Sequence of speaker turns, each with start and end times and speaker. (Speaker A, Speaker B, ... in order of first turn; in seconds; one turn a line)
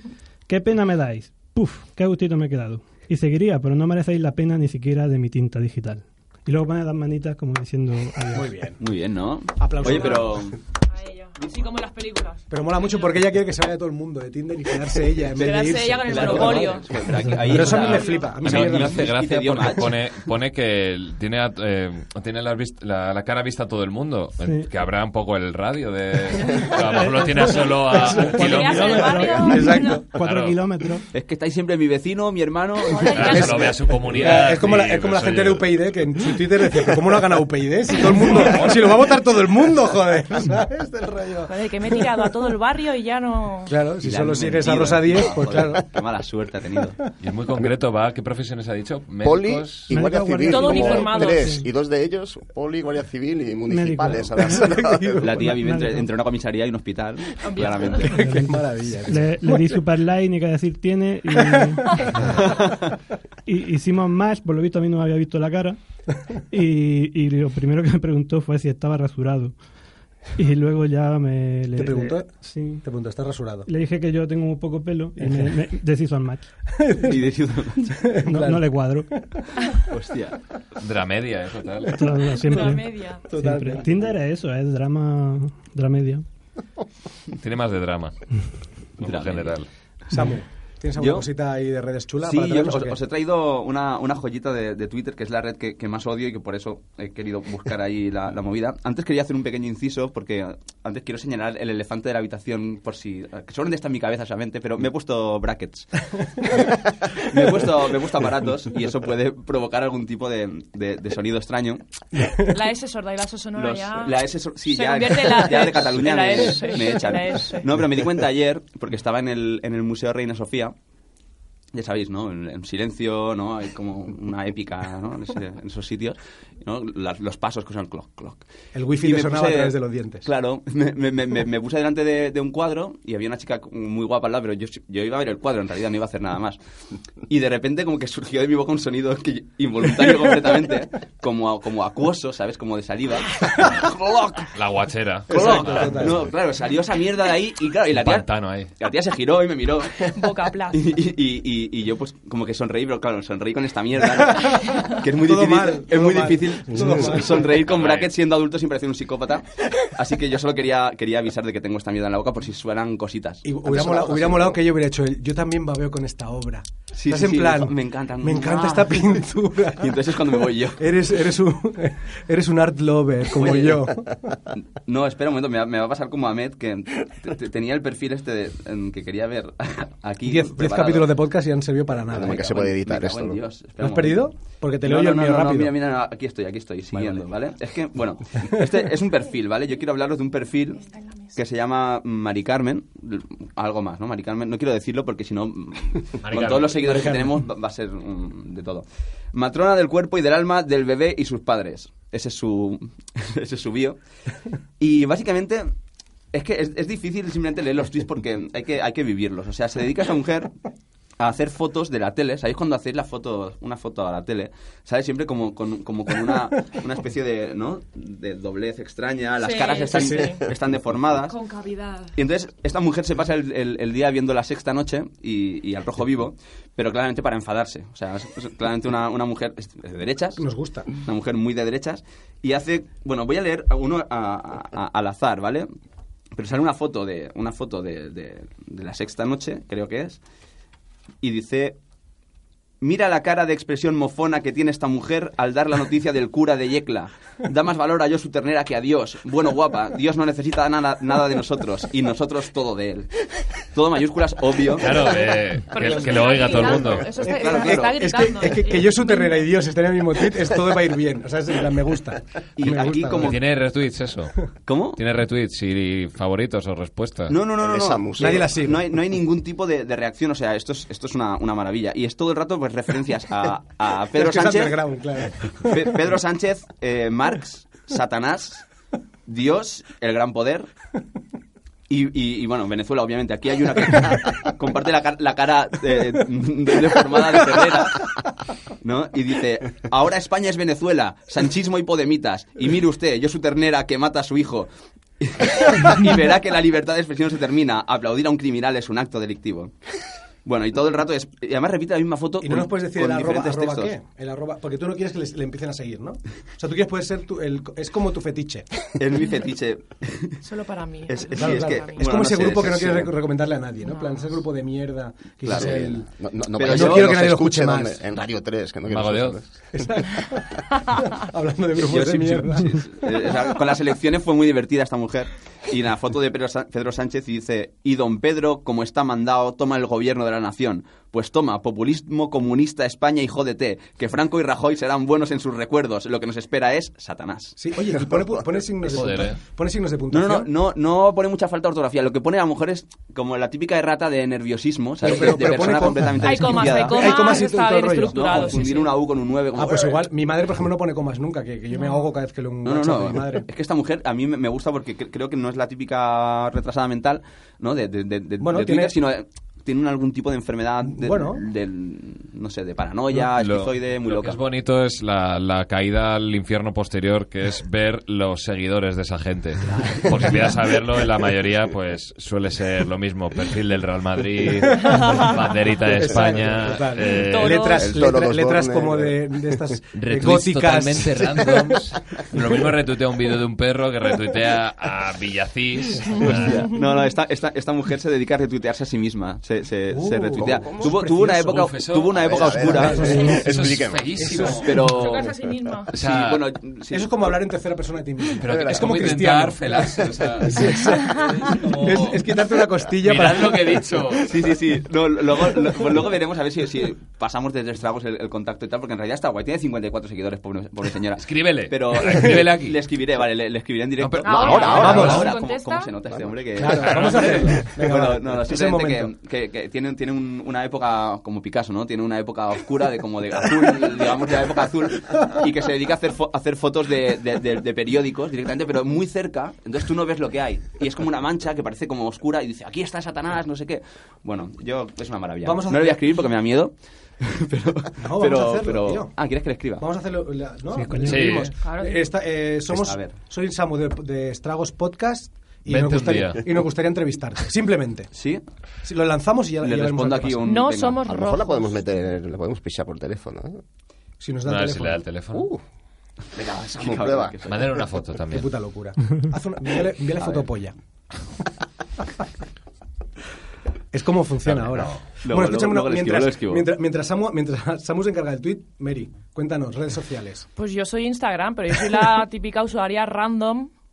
Speaker A: 0.5-8.5
Speaker B: 8.3-8.8
Speaker C: 8.8-10.6
Speaker B: 9.6-10.5
Speaker D: 9.9-10.2
Speaker D: 10.9-13.2
Speaker B: 12.5-19.1
Speaker C: 15.4-20.1
Speaker D: 15.4-17.1
Speaker A: 17.1-17.6
Speaker D: 17.6-18.3
Speaker E: 17.6-29.3
Speaker A: 24.4-24.7
Speaker D: 26.5-26.8
Speaker A: 26.9-31.1
Speaker B: 27.9-28.6
Speaker D: 28.2-30.0
Speaker B: 29.5-30.1
Speaker E: 30.1-30.6
Speaker C: 31.1-34.4
Speaker D: 32.9-33.8
Speaker E: 33.0-35.7
Speaker B: 33.2-42.0
Speaker E: 38.4-38.9
Speaker D: 41.5-43.7
Speaker B: 43.7-45.9
Speaker C: 44.0-47.0
Speaker E: 47.2-49.9
Speaker F: 49.2-55.4
Speaker A: 49.9-51.7
Speaker D: 50.5-51.6
Speaker A: 53.7-54.7
Speaker B: 54.4-55.6
Speaker C: 55.2-58.2
Speaker A: 55.5-56.1
Speaker D: 57.4-58.1
Speaker B: 58.0-59.8
Speaker A: 58.1-62.0
Speaker B: 61.5-62.3
Speaker C: 62.4-62.8
Speaker A: 63.5-69.6
Speaker A: 70.4-72.8
Speaker B: 71.8-73.7
Speaker A: 73.7-76.5
Speaker B: 75.2-75.5
Speaker B: 76.7-77.2
Speaker C: 77.0-78.0
Speaker B: 77.9-79.6
Speaker A: 78.2-79.1
Speaker C: 79.9-80.4
Speaker E: 80.8-82.1
Speaker A: 81.9-86.2
Speaker D: 82.4-83.3
Speaker B: 83.3-84.1
Speaker E: 87.3-88.1
Speaker E: 89.0-89.7
Speaker C: 89.0-89.6
Speaker B: 90.1-93.0
Speaker C: 91.0-91.3
Speaker C: 92.2-111.8
Speaker B: 112.1-112.4
Speaker D: 112.4-117.7
Speaker C: 113.6-120.8
Speaker C: 121.7-128.4
Speaker B: 128.7-130.3
Speaker C: 129.0-136.6
Speaker C: 137.3-144.5
Speaker E: 144.6-146.3
Speaker B: 145.3-146.3
Speaker C: 145.3-150.1
Speaker E: 147.9-148.7
Speaker D: 150.0-150.8
Speaker C: 150.7-163.4
Speaker B: 154.3-157.5
Speaker E: 157.6-158.1
Speaker B: 163.4-170.2
Speaker F: 163.7-164.6
Speaker C: 166.9-170.8
Speaker B: 170.8-174.2
Speaker C: 173.3-174.0
Speaker C: 174.5-181.1
Speaker B: 180.3-182.6
Speaker F: 182.1-183.4
Speaker C: 182.1-184.3
Speaker B: 183.8-185.8
Speaker C: 184.8-204.0
Speaker D: 190.9-191.3
Speaker E: 196.2-197.1
Speaker B: 196.9-197.3
Speaker C: 204.8-205.7
Speaker C: 206.3-210.6
Speaker C: 211.2-221.4
Speaker D: 219.3-220.5
Speaker B: 219.9-220.3
Speaker D: 221.2-222.2
Speaker C: 222.2-230.4
Speaker B: 230.4-230.9
Speaker C: 230.9-235.7
Speaker C: 236.3-240.2
Speaker C: 241.2-241.8
Speaker C: 242.8-255.2
Speaker E: 254.8-257.2
Speaker D: 255.7-259.4
Speaker C: 256.5-258.0
Speaker B: 257.2-263.4
Speaker C: 262.6-263.4
Speaker E: 263.2-267.4
Speaker C: 264.7-265.0
Speaker C: 267.3-274.8
Speaker F: 267.6-268.5
Speaker B: 268.2-268.8
Speaker B: 274.1-275.8
Speaker C: 275.4-278.7
Speaker C: 279.3-280.7
Speaker C: 281.9-288.2
Speaker C: 288.8-294.7
Speaker C: 295.2-299.8
Speaker C: 300.4-303.9
Speaker B: 302.4-308.7
Speaker C: 309.0-310.4
Speaker D: 310.4-312.1
Speaker C: 311.1-313.2
Speaker B: 311.4-316.1
Speaker D: 313.8-314.4
Speaker C: 315.4-315.8
Speaker F: 315.5-319.5
Speaker C: 316.6-317.2
Speaker B: 316.6-318.0
Speaker E: 318.9-319.4
Speaker B: 319.7-322.9
Speaker C: 321.8-337.6
Speaker B: 337.6-340.5
Speaker E: 338.9-339.4
Speaker C: 340.1-347.4
Speaker B: 345.0-348.7
Speaker D: 346.2-349.0
Speaker C: 348.1-350.0
Speaker B: 349.6-353.5
Speaker D: 351.7-352.1
Speaker C: 352.6-364.4
Speaker B: 358.4-359.0
Speaker B: 360.8-361.4
Speaker E: 363.2-377.8
Speaker B: 374.6-375.2
Speaker D: 374.8-375.5
Speaker B: 375.9-381.8
Speaker D: 377.1-377.9
Speaker F: 377.8-379.6
Speaker E: 379.9-386.7
Speaker D: 386.0-386.9
Speaker C: 386.2-393.3
Speaker B: 389.9-391.7
Speaker F: 390.4-391.0
Speaker E: 391.4-394.8
Speaker F: 392.1-394.5
Speaker B: 392.6-394.7
Speaker C: 394.4-395.3
Speaker D: 394.8-395.9
Speaker E: 395.9-396.4
Speaker C: 395.9-397.3
Speaker B: 396.9-404.0
Speaker E: 398.4-402.2
Speaker F: 398.4-399.1
Speaker C: 401.6-402.0
Speaker E: 403.0-404.4
Speaker C: 404.2-439.8
Speaker E: 411.2-412.8
Speaker E: 414.0-415.3
Speaker D: 414.2-415.9
Speaker F: 414.2-415.2
Speaker B: 414.8-415.3
Speaker B: 416.6-419.1
Speaker E: 416.7-417.7
Speaker B: 435.4-436.0
Speaker B: 438.0-439.1
Speaker B: 439.8-448.1
Speaker A: 440.7-441.4
Speaker E: 441.1-441.5
Speaker D: 441.6-442.0
Speaker C: 442.7-443.2
Speaker E: 445.7-446.5
Speaker C: 448.1-448.4
Speaker B: 448.8-450.5
Speaker C: 449.6-451.0
Speaker D: 450.4-451.8
Speaker F: 451.1-453.6
Speaker B: 454.2-455.0
Speaker E: 454.5-455.5
Speaker F: 455.3-455.6
Speaker F: 456.4-457.7
Speaker C: 456.6-457.7
Speaker E: 457.5-458.5
Speaker B: 458.3-460.8
Speaker C: 460.2-460.5
Speaker B: 463.9-470.5
Speaker E: 464.5-465.0
Speaker C: 465.2-466.7
Speaker D: 470.6-473.7